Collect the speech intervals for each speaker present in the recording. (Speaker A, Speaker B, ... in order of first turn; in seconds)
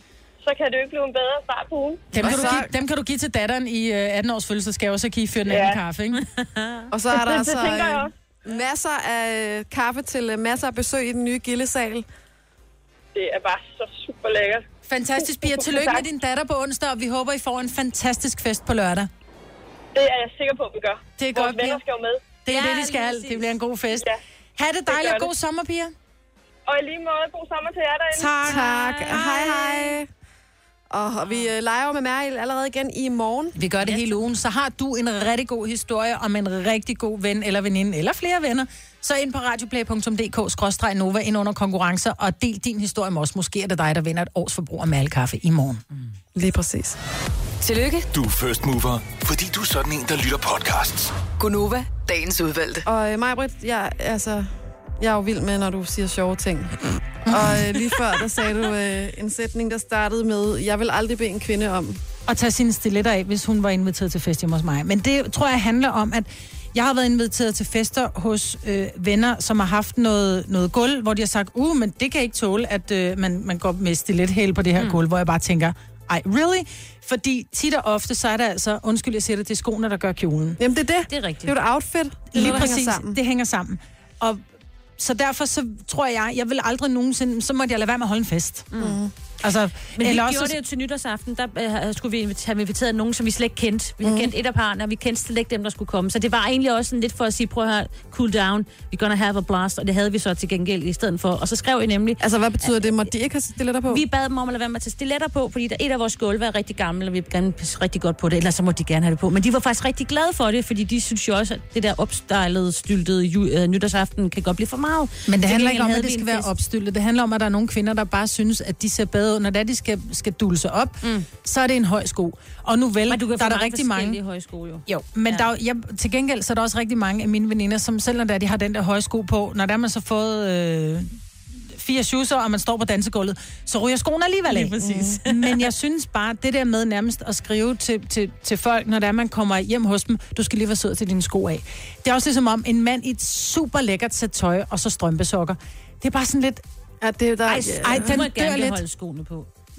Speaker A: 0.4-2.5, 5.5-5.8, 7.1-8.1, 13.1-14.6, 15.2-16.1, 19.9-22.3, 24.9-25.3, 26.7-28.6
Speaker B: 2.1-6.2, 14.9-19.1, 21.2-21.8, 22.4-25.9, 28.1-30.0, 33.5-45.8, 57.2-58.1, 62.3-80.6, 82.3-84.4, 85.0-88.7, 89.4-90.5, 115.3-124.2, 124.9-131.2, 131.7-146.6, 147.5-148.8
Speaker C: 2.1-2.7, 6.9-12.1, 28.4-30.1, 30.9-33.6, 46.3-47.0, 52.9-54.5, 55.0-62.0, 80.6-83.2, 88.8-89.1, 94.0-94.3, 102.2-104.0, 134.8-135.2, 147.0-148.2
Speaker D: 6.3-6.8, 22.5-23.5, 33.8-34.2, 81.1-81.5, 90.0-102.7, 103.9-116.5, 123.1-125.5, 134.5-135.7, 147.9-149.5
Speaker E: 47.6-48.1, 51.4-52.8
Speaker F: 48.1-51.1